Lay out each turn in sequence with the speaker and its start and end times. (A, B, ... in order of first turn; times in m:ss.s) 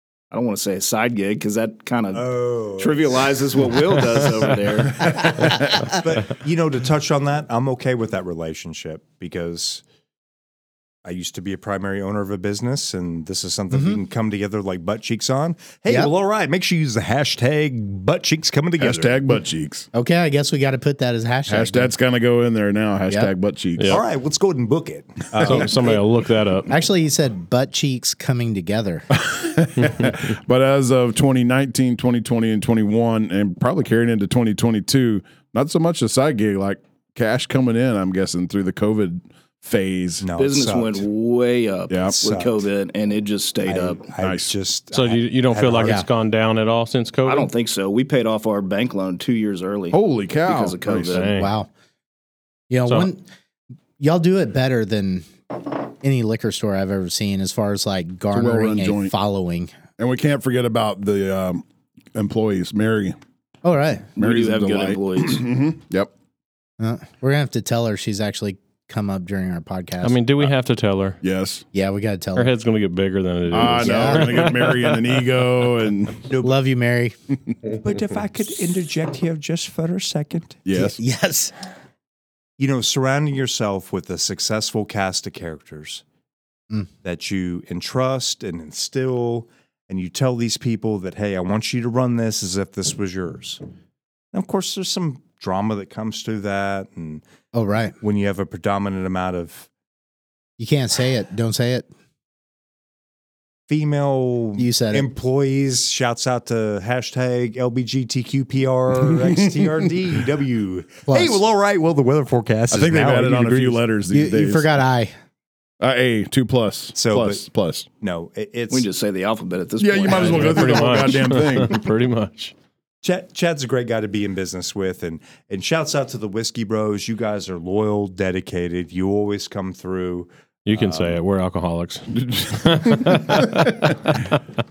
0:00.3-0:05.4 A
0:02.1-0:03.4 B
0:05.2-0:05.7 C
0:05.4-0:09.8 B
0:11.0-0:19.2 B
0:13.7-0:14.0 D
0:18.8-0:19.9 C
0:19.9-0:21.9 D
0:21.5-0:24.0 C
0:23.9-0:26.0 B
0:25.4-0:26.7 E
0:26.7-0:29.1 D
0:29.1-0:40.3 C
0:40.2-0:41.1 B
0:40.4-0:44.0 A
0:42.0-0:42.6 B
0:43.6-0:46.0 B
0:44.2-0:44.5 C
0:44.9-0:47.5 E
0:47.2-0:51.3 A
0:49.9-0:51.2 C
0:51.1-0:51.5 E
0:51.3-0:51.7 D
0:52.7-0:53.2 D
0:54.0-0:59.7 D
0:58.3-0:59.1 C
1:00.0-1:01.6 C
1:02.2-1:03.2 C
1:03.6-1:04.1 D
1:04.2-1:05.5 A
1:04.2-1:06.1 C
1:06.8-1:10.2 D
1:10.0-1:11.2 E
1:11.2-1:11.6 C
1:11.7-1:12.5 D
1:12.4-1:15.0 E
1:13.5-1:16.3 C
1:13.7-1:14.4 D
1:16.3-1:16.6 B
1:16.4-1:17.2 D
1:17.7-1:20.6 B
1:20.6-1:21.0 C
1:20.7-1:21.5 D
1:22.6-1:26.0 B
1:27.0-1:33.6 B
1:34.3-1:37.2 B
1:37.5-1:37.9 D
1:38.0-1:39.7 B
1:40.6-1:41.9 D
1:43.7-1:53.8 B
1:44.6-1:45.1 D
1:49.1-1:49.7 C
1:51.1-1:51.4 D
1:52.7-1:54.7 C
1:54.1-1:55.1 D
1:55.8-1:57.9 C
1:57.0-1:57.4 B
1:58.0-1:58.9 B
1:58.7-2:01.2 A
1:59.8-2:01.8 C
2:00.1-2:00.5 B
2:00.3-2:02.5 E
2:03.0-2:11.2 B
2:10.7-2:14.4 E
2:12.1-2:14.2 C